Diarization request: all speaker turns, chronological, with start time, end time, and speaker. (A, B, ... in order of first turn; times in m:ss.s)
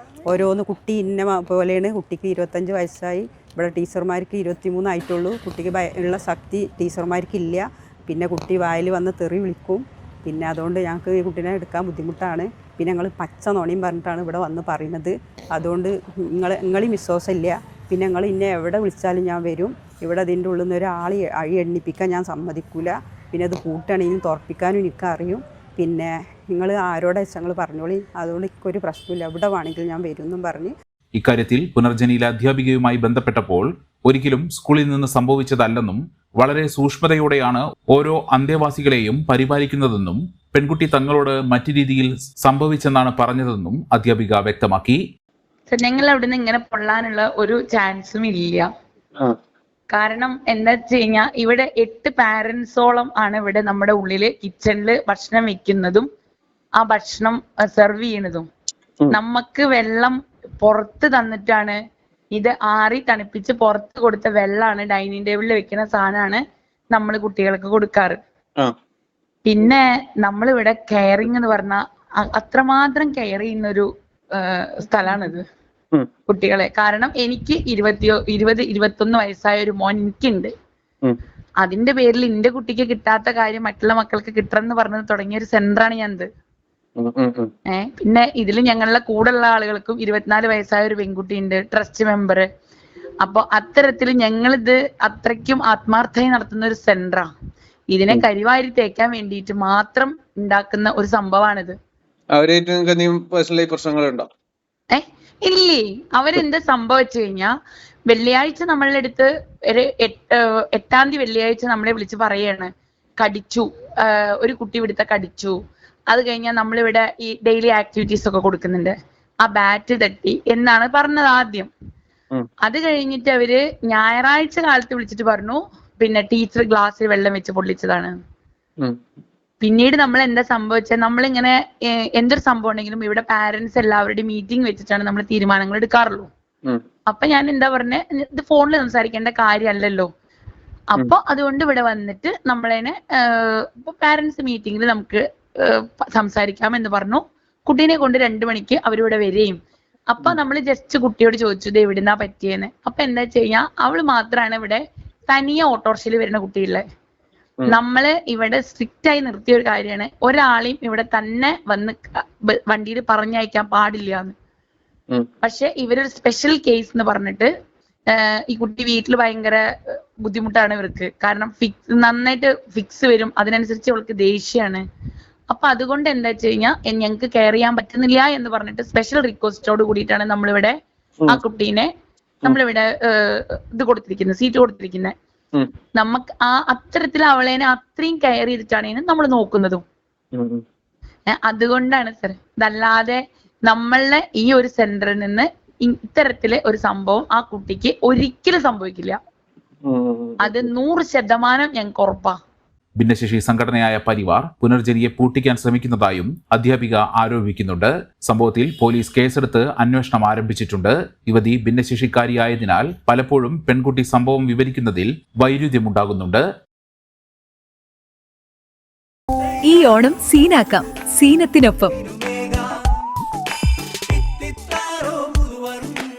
0:00.3-0:30.7 A
0:31.2-0:45.0 B
0:45.7-0:48.7 C
0:49.9-0:56.1 C
0:56.8-0:58.5 C
0:59.1-1:01.8 C
1:02.3-1:06.4 C
1:06.9-1:08.2 C
1:09.4-1:11.8 C
1:12.3-1:15.4 C
1:16.3-1:20.5 C
1:21.6-1:26.3 C
1:27.0-1:27.5 D
1:27.7-1:32.4 C
1:33.2-1:37.3 C
1:37.9-1:41.8 C
1:42.3-1:44.3 D
1:44.9-1:47.5 C
1:48.1-1:52.7 C
1:53.2-1:55.6 C
1:56.1-2:01.7 C
2:02.6-2:08.2 C
2:09.6-2:16.3 C
2:17.1-2:20.1 C
2:20.9-2:29.6 C
2:30.1-2:36.8 C
2:37.7-2:44.3 C
2:45.4-2:47.5 C
2:48.1-2:49.6 C
2:50.2-2:54.8 C
2:55.5-3:00.7 C
3:01.3-3:01.9 C
3:02.4-3:05.1 C
3:06.0-3:09.8 C
3:10.4-3:10.6 D
3:11.4-3:19.2 C
3:19.8-3:20.6 D
3:20.4-3:22.4 C
3:23.0-3:36.4 B
3:39.6-3:41.9 E